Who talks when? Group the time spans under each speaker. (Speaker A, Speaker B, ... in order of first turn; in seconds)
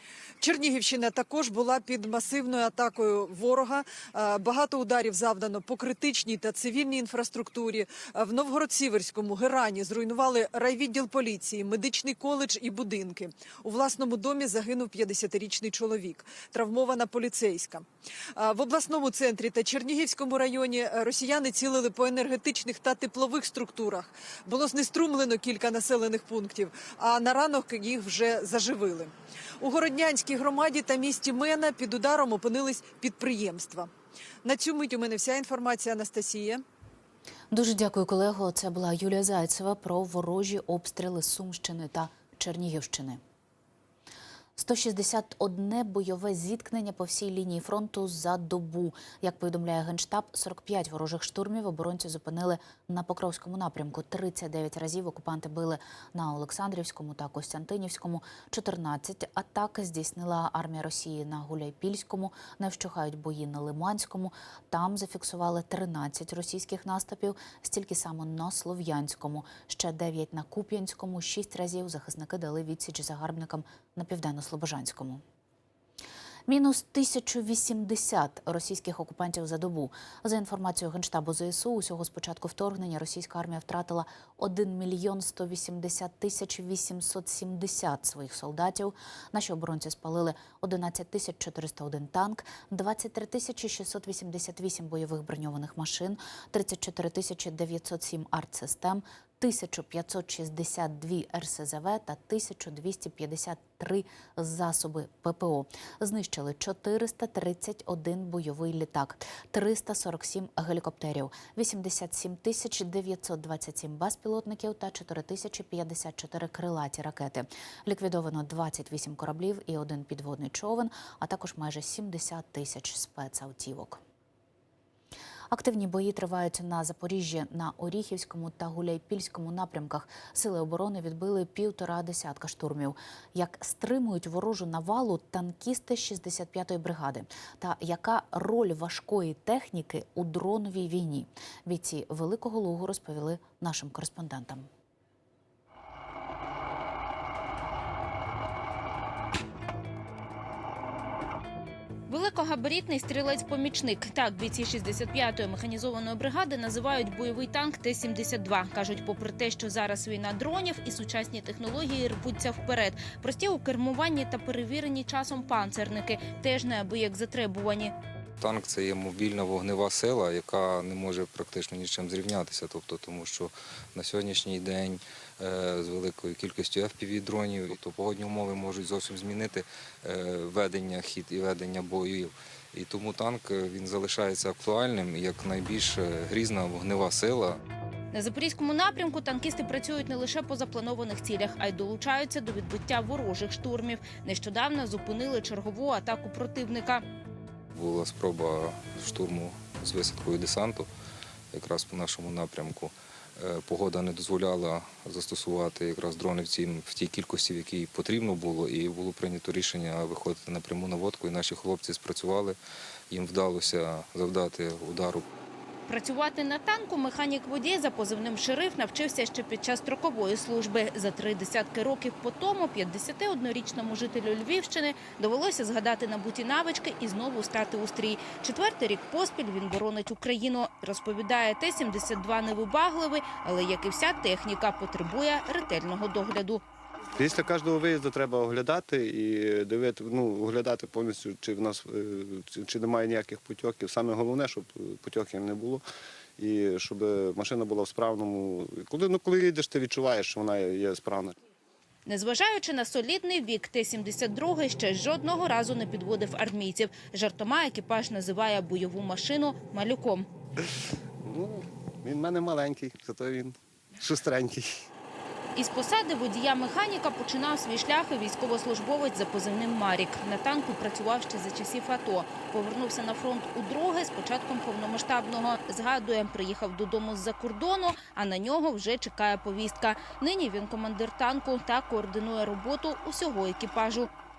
Speaker A: 0.4-17.8, 18.4-33.9, 34.4-36.6
Speaker B: 37.5-43.2, 44.6-75.2, 76.5-124.0, 125.5-144.7
Speaker C: 152.1-167.9, 188.1-197.0, 215.9-236.6, 252.1-260.3, 265.6-284.1
Speaker D: 168.4-187.6, 197.7-200.9, 201.5-212.6, 213.1-215.2
Speaker E: 237.2-245.8, 246.4-251.4, 261.2-264.9